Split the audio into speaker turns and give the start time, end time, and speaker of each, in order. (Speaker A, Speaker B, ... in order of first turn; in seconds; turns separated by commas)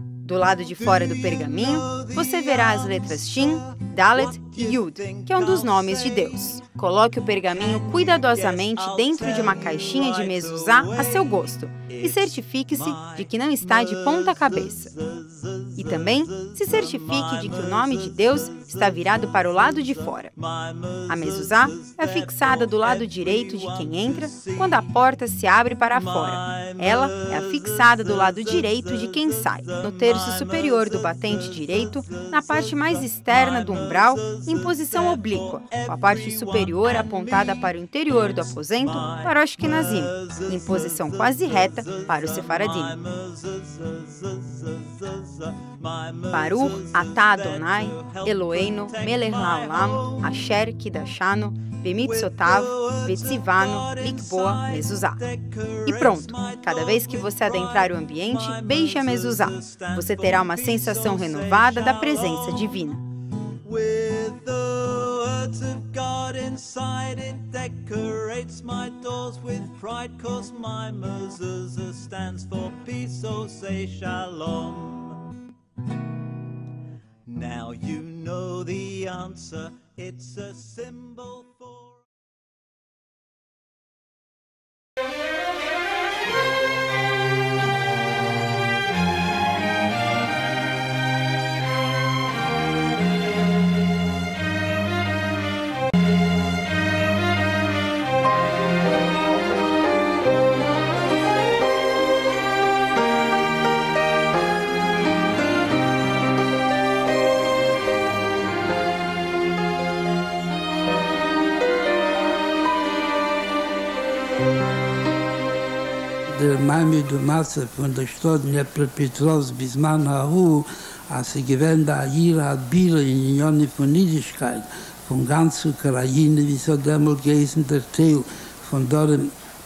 Speaker A: 0.2-15.0, Speaker B: 0.7-6.6, Speaker B: 7.5-24.9, Speaker A: 15.7-20.4, Speaker A: 21.0-43.0, Speaker B: 26.0-50.4, Speaker A: 46.3-63.0, Speaker B: 52.0-62.9, Speaker B: 63.6-75.3, Speaker B: 77.3-81.9, Speaker C: 116.3-129.3